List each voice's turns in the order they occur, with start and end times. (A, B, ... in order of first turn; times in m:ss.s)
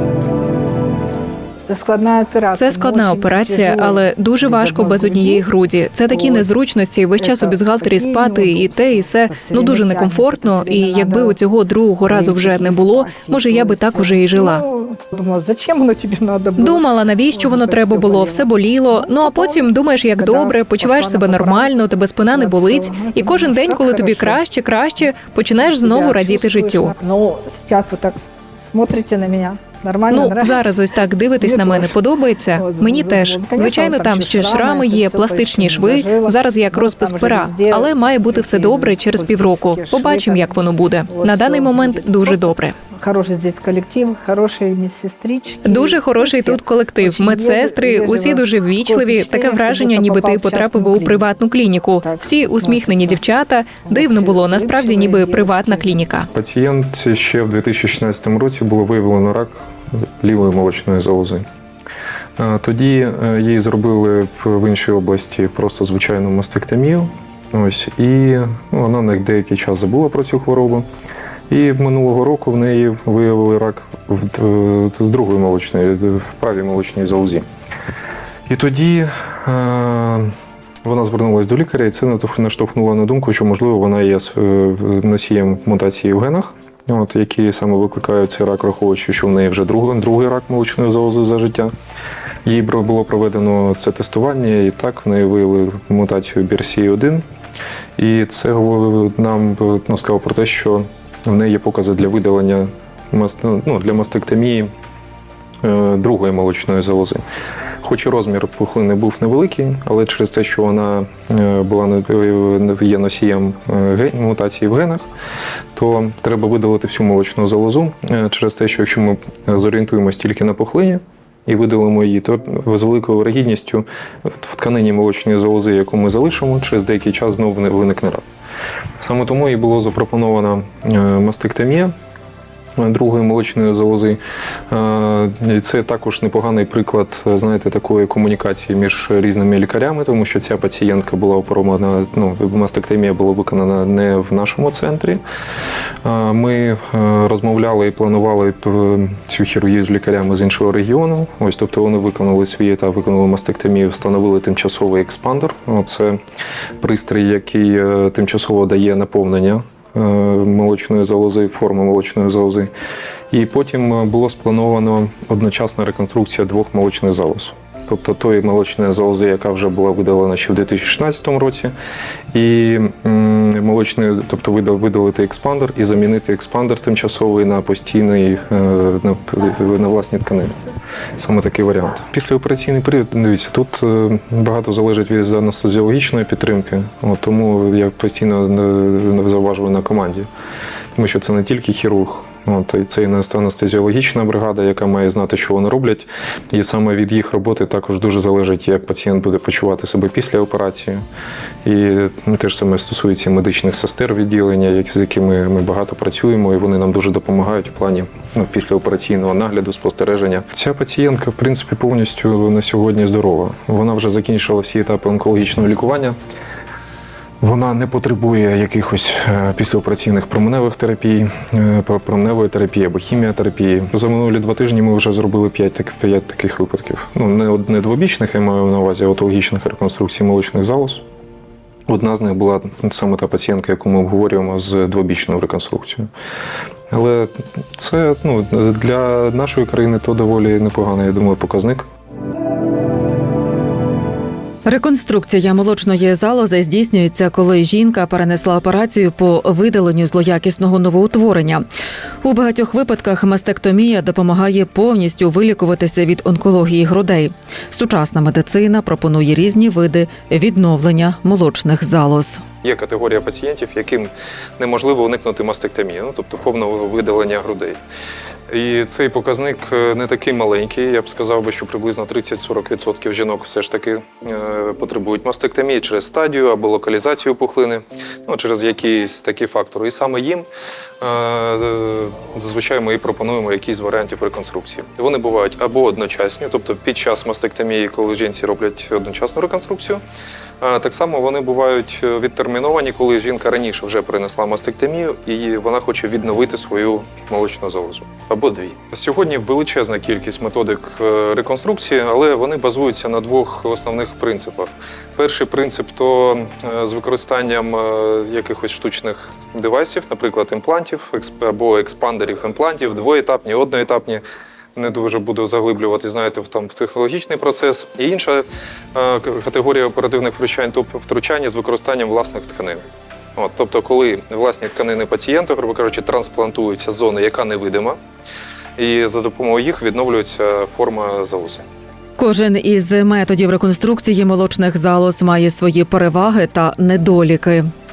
0:01.7-0:05.4 A
0:02.5-0:14.6 B
0:06.1-0:06.5 A
0:07.2-0:11.4 A
0:12.1-0:24.4 A
0:16.6-0:26.9 B
0:25.6-0:30.6 A
0:30.1-0:42.8 B
0:31.4-0:32.0 A
0:32.5-0:51.3 A
0:45.6-0:56.3 B
0:52.0-0:53.2 A
0:53.8-0:55.9 A
0:56.3-1:01.4 C
1:02.4-1:10.9 C
1:11.5-1:17.4 C
1:18.5-1:20.3 C
1:20.8-1:31.7 C
1:32.4-1:37.2 C
1:38.0-1:44.7 C
1:45.6-1:47.2 C
1:47.8-1:55.0 C
1:55.8-2:08.2 C
2:09.0-2:11.9 C
2:12.8-2:25.2 C
2:26.0-2:36.2 C
2:36.8-2:42.7 C
2:43.3-2:51.7 C
2:52.3-3:00.5 C
3:01.2-3:10.3 C
3:11.0-3:21.0 C
3:21.6-3:36.2 C
3:37.4-3:51.0 C
3:51.9-3:56.1 C
3:56.9-4:01.8 C
4:04.6-4:11.6 D
4:12.2-4:22.4 D
4:22.6-4:27.8 C
4:28.5-4:40.5 C
4:41.0-4:50.0 C
4:50.6-5:14.2 C
5:14.8-5:22.8 C
5:23.4-5:28.0 C
5:28.8-5:31.6 C
5:32.2-5:37.7 D